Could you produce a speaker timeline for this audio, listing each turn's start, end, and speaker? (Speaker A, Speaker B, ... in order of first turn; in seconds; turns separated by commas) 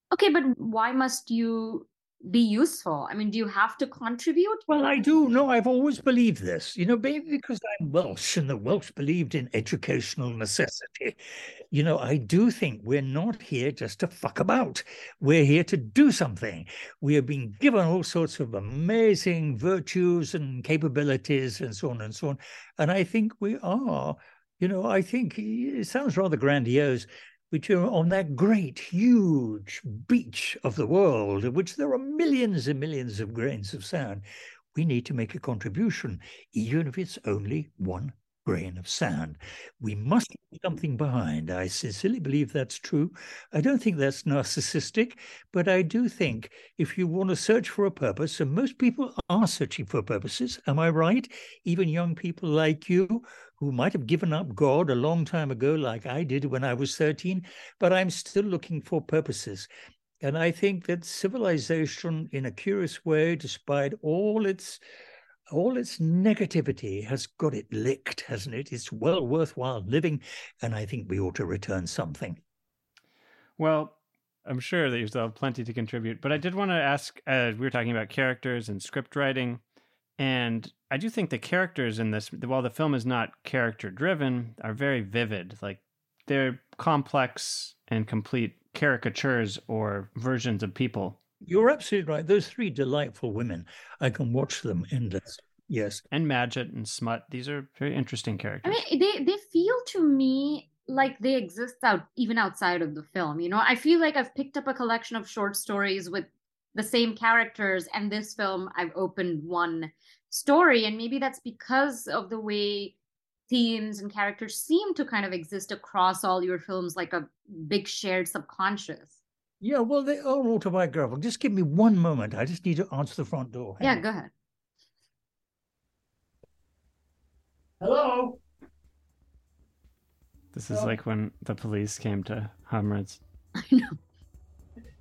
Speaker A: 0.1-4.6, Speaker B: 4.7-59.7, Speaker B: 60.2-64.8, Speaker B: 65.5-72.4, Speaker C: 73.6-79.6, Speaker C: 80.2-91.2, Speaker B: 91.5-96.0, Speaker C: 96.1-98.8, Speaker A: 98.6-113.0, Speaker A: 113.5-119.2, Speaker B: 119.6-124.0, Speaker A: 123.8-124.3, Speaker B: 127.8-128.4, Speaker C: 130.5-133.2, Speaker A: 133.6-134.0